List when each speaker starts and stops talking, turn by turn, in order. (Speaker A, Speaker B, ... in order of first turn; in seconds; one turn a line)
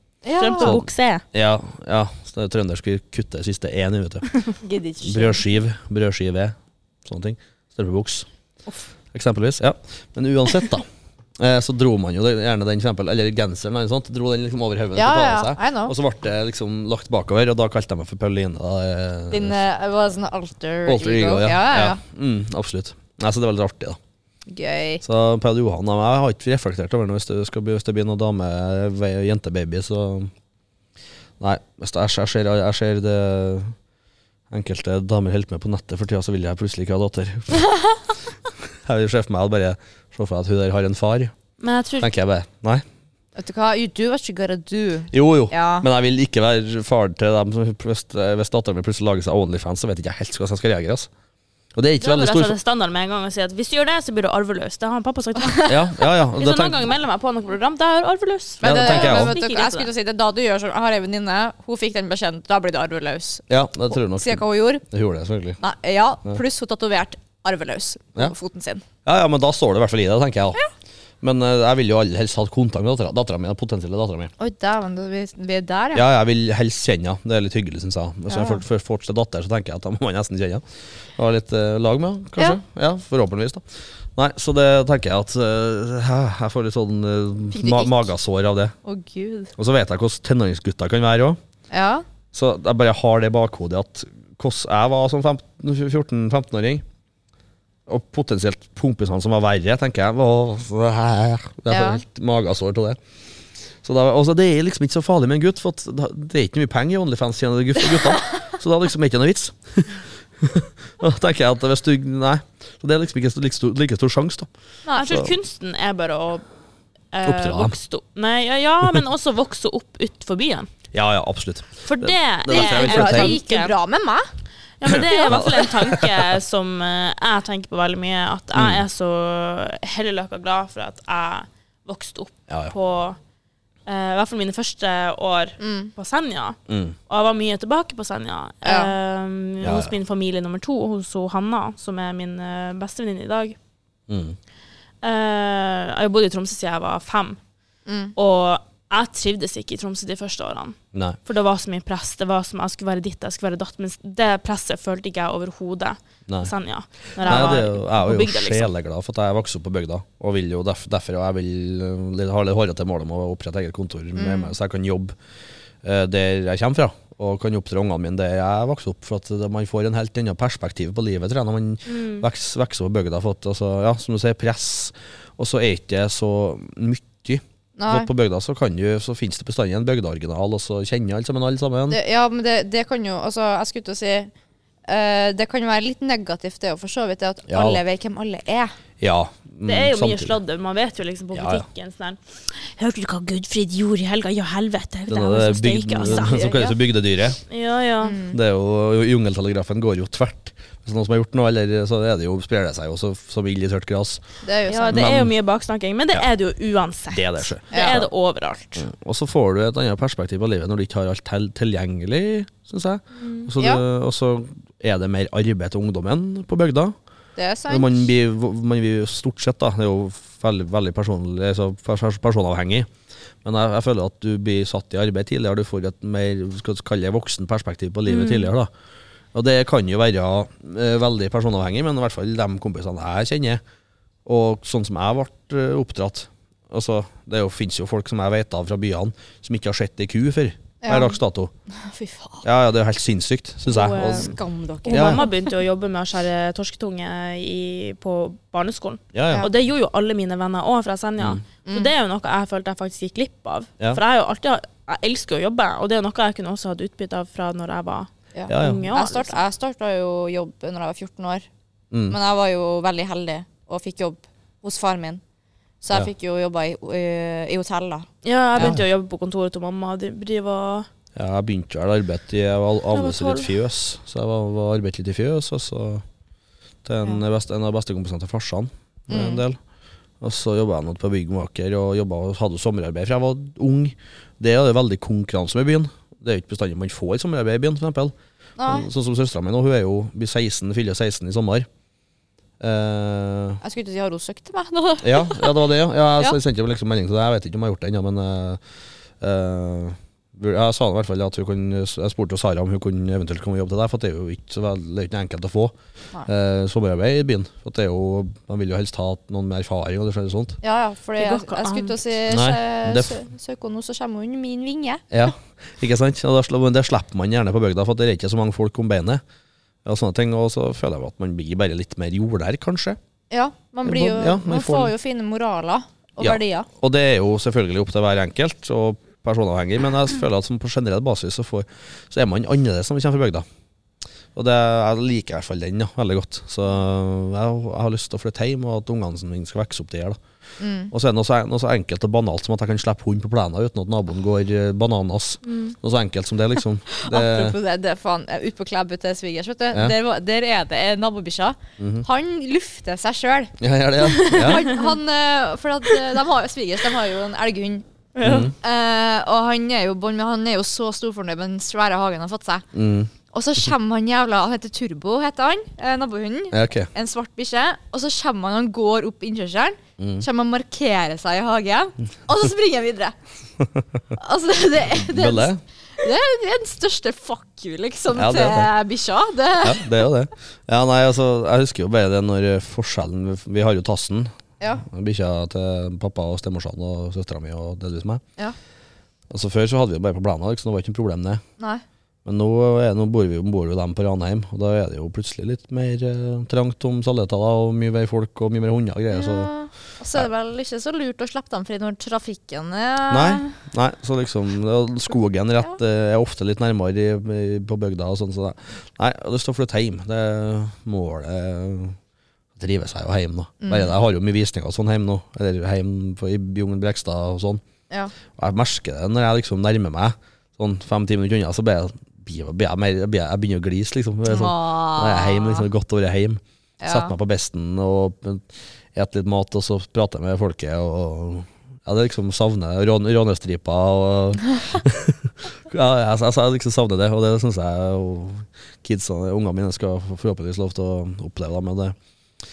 Speaker A: 0.2-0.8
Speaker B: 0.4-1.2
Speaker C: 0.6-4.3
Speaker A: 4.6-5.4
Speaker C: 5.0-8.3
Speaker C: 9.1-10.9
Speaker C: 11.4-19.6
Speaker A: 14.9-15.9
Speaker A: 19.3-22.0
Speaker C: 20.9-24.0
Speaker A: 24.5-25.0
Speaker C: 25.0-30.3
Speaker C: 31.4-33.7
Speaker C: 34.5-37.6
Speaker A: 37.7-38.0
Speaker C: 38.6-41.3
Speaker B: 41.6-42.1
Speaker C: 42.0-42.8
Speaker A: 43.4-45.9
Speaker C: 45.1-51.1
Speaker C: 51.7-52.5
Speaker B: 52.0-59.9
Speaker A: 55.4-55.7
Speaker C: 55.7-56.9
Speaker A: 58.6-64.8
Speaker C: 58.6-59.3
Speaker C: 63.5-65.6
Speaker A: 65.6-68.8
Speaker C: 69.0-70.6
Speaker C: 71.2-74.3
Speaker A: 74.4-76.1
Speaker C: 75.9-80.6
Speaker A: 78.3-78.6
Speaker C: 81.1-88.7
Speaker A: 87.5-88.1
Speaker A: 88.8-89.5
Speaker C: 89.5-91.4
Speaker A: 91.7-92.0
Speaker C: 92.3-96.8
Speaker C: 97.9-103.0
Speaker A: 101.7-102.0
Speaker C: 103.8-114.5
Speaker B: 114.9-116.4
Speaker C: 115.0-115.3
Speaker B: 117.1-120.7
Speaker C: 117.2-117.7
Speaker C: 120.9-123.4
Speaker B: 121.8-123.7
Speaker A: 122.5-124.3
Speaker B: 124.8-133.2
Speaker C: 124.9-126.3
Speaker A: 125.1-125.4
Speaker C: 128.5-128.8
Speaker B: 133.8-143.6
Speaker A: 135.6-135.9
Speaker C: 136.7-136.9
Speaker A: 138.6-138.9
Speaker C: 139.6-139.9
Speaker C: 144.1-144.4
Speaker B: 145.0-147.4
Speaker A: 147.9-148.1
Speaker B: 148.2-158.7
Speaker C: 150.9-151.2
Speaker C: 157.2-165.1
Speaker A: 157.2-157.5
Speaker A: 164.2-164.5
Speaker C: 165.8-182.0
Speaker B: 171.9-172.2
Speaker A: 177.8-178.1
Speaker A: 181.9-184.3
Speaker A: 184.9-188.7
Speaker C: 187.5-187.8
Speaker C: 189.0-190.3
Speaker B: 189.7-196.6
Speaker C: 191.3-191.6
Speaker C: 195.1-197.4
Speaker A: 196.0-196.8
Speaker B: 197.5-198.2
Speaker A: 198.0-198.4
Speaker C: 198.3-204.2
Speaker A: 204.4-205.1
Speaker B: 204.7-208.9
Speaker C: 204.9-205.3
Speaker C: 207.1-208.1
Speaker A: 207.7-208.0
Speaker C: 208.8-216.9
Speaker A: 213.6-213.8
Speaker A: 217.3-218.1
Speaker C: 217.7-222.9
Speaker C: 223.4-228.7
Speaker B: 228.1-228.5
Speaker C: 229.3-233.6
Speaker C: 234.2-241.5
Speaker A: 240.8-241.2
Speaker A: 241.8-242.4
Speaker C: 242.4-244.4
Speaker B: 243.7-259.4
Speaker A: 243.8-245.5
Speaker C: 244.9-245.2
Speaker C: 249.1-249.5
Speaker A: 258.3-261.5
Speaker C: 258.5-258.9
Speaker C: 261.9-262.2
Speaker A: 262.1-265.2
Speaker A: 265.8-268.8
Speaker B: 268.2-270.9
Speaker C: 271.1-276.0
Speaker B: 272.9-273.5
Speaker C: 276.8-279.6
Speaker A: 279.1-279.4
Speaker C: 280.2-288.1
Speaker A: 288.6-288.9
Speaker C: 288.6-291.7
Speaker C: 292.6-293.6
Speaker A: 293.6-295.7
Speaker C: 295.0-298.6
Speaker C: 299.2-305.7
Speaker C: 306.3-310.6
Speaker A: 310.6-315.1
Speaker B: 311.2-312.0
Speaker C: 312.3-313.2
Speaker C: 315.1-319.2
Speaker C: 319.8-323.0
Speaker A: 323.3-326.7
Speaker C: 323.8-324.9
Speaker C: 326.2-333.4
Speaker C: 334.3-340.2
Speaker A: 340.6-340.9
Speaker C: 340.9-347.6
Speaker A: 345.4-345.7
Speaker A: 346.9-357.8
Speaker C: 351.8-352.1
Speaker C: 353.6-354.7
Speaker B: 358.1-358.5
Speaker C: 358.2-358.5
Speaker A: 358.6-362.6
Speaker C: 362.7-363.1
Speaker A: 363.3-373.1
Speaker C: 366.5-366.9
Speaker C: 370.0-370.2
Speaker A: 374.1-380.0
Speaker C: 374.9-375.6
Speaker C: 378.1-378.7
Speaker C: 379.6-384.3
Speaker C: 384.8-388.2
Speaker C: 389.3-391.4
Speaker C: 392.2-399.5
Speaker A: 399.1-403.5
Speaker C: 403.1-412.0
Speaker C: 412.6-417.6
Speaker A: 413.6-413.9
Speaker C: 418.3-441.9
Speaker A: 424.3-425.7
Speaker A: 426.8-427.1